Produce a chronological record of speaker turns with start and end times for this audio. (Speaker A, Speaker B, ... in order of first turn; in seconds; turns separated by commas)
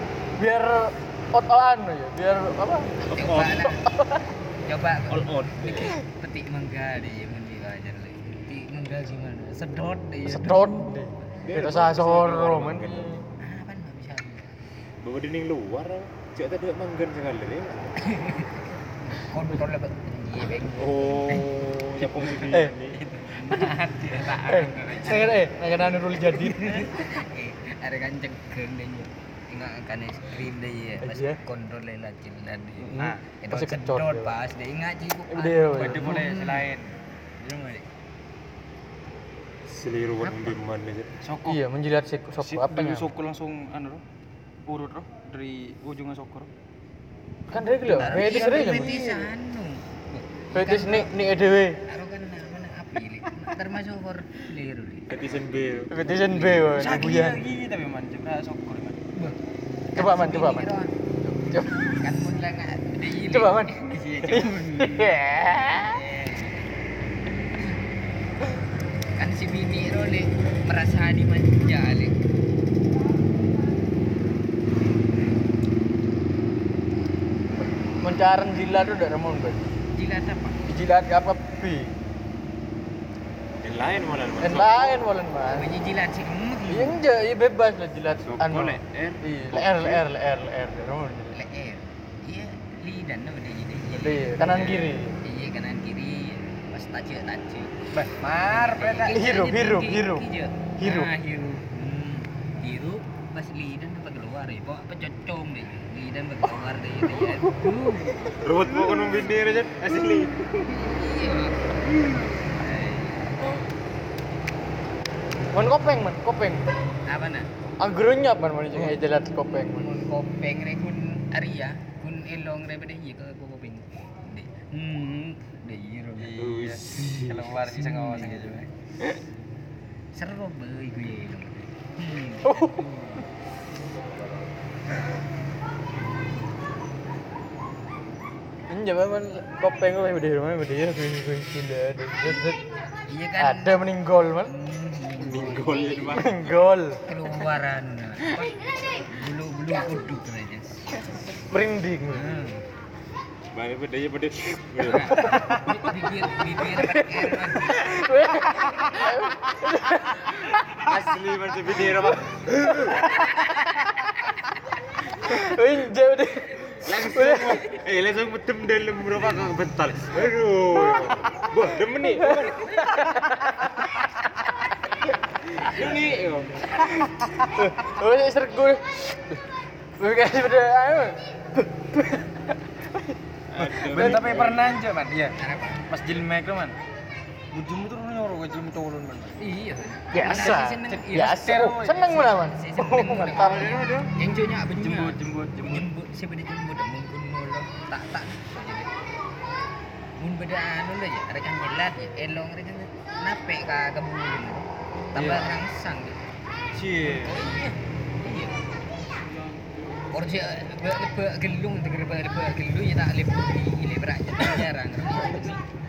Speaker A: 0.4-4.3, Speaker B: 3.1-3.9, Speaker C: 3.1-3.6, Speaker B: 4.6-11.2, Speaker C: 5.1-6.0, Speaker A: 10.2-13.2, Speaker C: 11.4-13.2, Speaker B: 13.4-14.5, Speaker C: 15.0-18.1, Speaker B: 18.0-21.6, Speaker C: 20.8-23.0, Speaker A: 22.5-22.8, Speaker B: 23.0-25.4, Speaker A: 24.3-27.1, Speaker B: 26.3-36.7, Speaker A: 31.0-31.4, Speaker A: 32.8-34.3, Speaker D: 33.0-33.2, Speaker A: 35.3-36.3, Speaker D: 35.7-36.9, Speaker B: 37.4-37.9, Speaker C: 39.6-41.1, Speaker B: 40.2-40.6, Speaker D: 41.2-41.6, Speaker A: 41.4-43.1, Speaker D: 42.4-44.0, Speaker D: 44.7-46.5, Speaker A: 47.5-49.3, Speaker B: 47.9-51.1, Speaker A: 50.5-51.8, Speaker B: 51.8-55.5, Speaker C: 55.1-55.9, Speaker A: 55.9-57.4, Speaker B: 56.1-57.1, Speaker D: 56.7-59.0, Speaker B: 60.0-60.9, Speaker A: 60.0-62.0, Speaker B: 62.0-66.7, Speaker A: 63.2-66.0, Speaker B: 69.1-72.2, Speaker A: 78.0-79.7, Speaker B: 79.9-80.7, Speaker A: 80.7-81.9, Speaker C: 83.6-85.0, Speaker A: 84.4-85.7, Speaker B: 85.5-87.0, Speaker A: 86.7-91.4, Speaker C: 88.2-90.0, Speaker B: 91.3-108.3, Speaker A: 93.9-95.2, Speaker D: 97.9-99.3, Speaker A: 99.0-100.2, Speaker A: 100.8-101.1, Speaker A: 107.2-107.8, Speaker C: 108.2-110.3, Speaker B: 110.6-113.7, Speaker A: 115.5-116.7, Speaker B: 117.1-117.5, Speaker A: 117.8-119.9, Speaker B: 119.7-126.4, Speaker D: 126.2-128.7, Speaker C: 126.3-127.5, Speaker B: 127.5-128.7, Speaker B: 130.1-133.3, Speaker A: 132.4-133.0, Speaker A: 138.7-142.6, Speaker B: 142.2-143.8, Speaker A: 143.4-144.5, Speaker B: 144.4-146.4, Speaker C: 145.2-146.6, Speaker A: 146.1-147.0, Speaker B: 147.0-151.1, Speaker A: 151.3-152.5, Speaker B: 152.1-152.6, Speaker C: 153.5-155.6, Speaker B: 154.8-157.9, Speaker A: 155.1-155.9, Speaker A: 156.4-160.6, Speaker C: 160.7-163.1, Speaker A: 163.2-164.1, Speaker A: 165.2-167.7, Speaker C: 166.8-172.7, Speaker A: 172.0-173.9, Speaker C: 175.2-176.8, Speaker A: 176.8-179.4, Speaker A: 180.0-184.5, Speaker C: 183.5-184.7, Speaker D: 183.6-186.8, Speaker B: 185.3-185.8, Speaker D: 187.5-189.4, Speaker B: 189.4-198.9, Speaker A: 190.1-194.1, Speaker D: 190.2-192.1, Speaker D: 193.4-194.0, Speaker D: 194.7-195.9, Speaker B: 200.2-206.3, Speaker D: 205.2-205.4, Speaker D: 206.7-207.4, Speaker B: 207.0-208.7, Speaker B: 210.1-215.6